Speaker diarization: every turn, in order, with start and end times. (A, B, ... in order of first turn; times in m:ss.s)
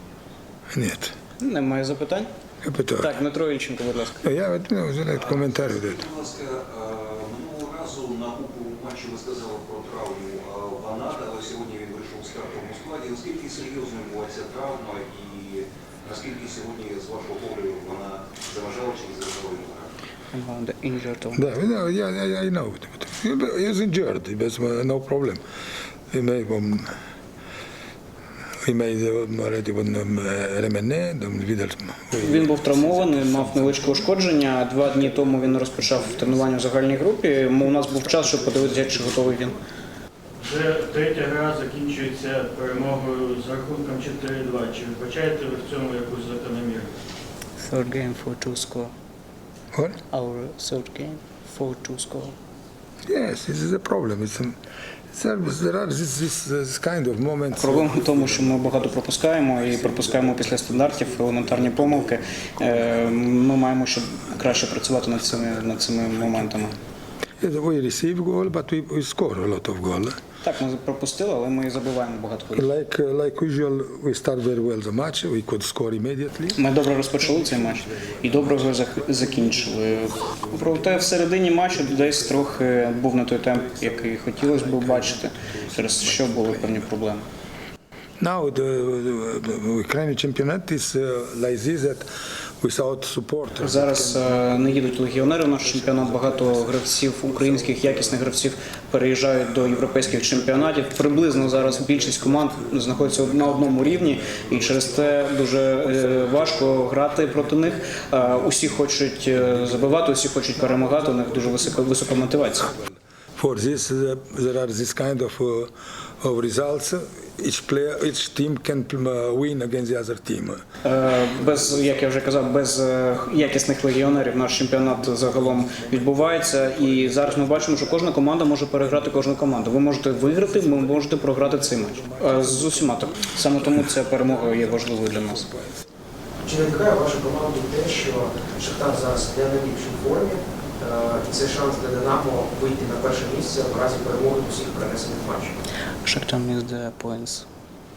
0:00.7-0:01.1 A
0:01.4-0:02.3 B
0:02.6-0:03.2 A
0:03.0-0:04.2 B
0:04.2-0:06.0 A
0:05.9-0:19.8 C
0:20.3-0:21.5 B
0:21.3-0:25.4 A
0:26.1-0:26.9 A
0:28.6-0:34.1 A
0:32.2-0:39.6 B
0:35.3-0:36.3 A
0:40.4-0:46.9 D
0:47.6-0:48.9 B
0:49.7-0:50.0 A
0:50.1-0:52.3 B
0:53.1-0:54.6 A
0:55.1-0:57.9 A
0:57.6-1:06.8 B
0:57.8-0:58.9 C
0:59.7-1:03.0 C
1:07.4-1:10.2 A
1:10.4-1:12.7 B
1:12.5-1:16.6 A
1:16.6-1:27.3 B
1:17.2-1:26.9 A
1:28.2-1:32.1 A
1:32.6-1:38.2 A
1:33.6-1:52.7 B
1:39.7-2:00.6 A
2:00.8-2:15.5 B
2:01.4-2:02.3 A
2:03.4-2:08.2 A
2:08.8-2:15.8 A
2:16.4-2:25.5 E
2:26.0-2:27.5 B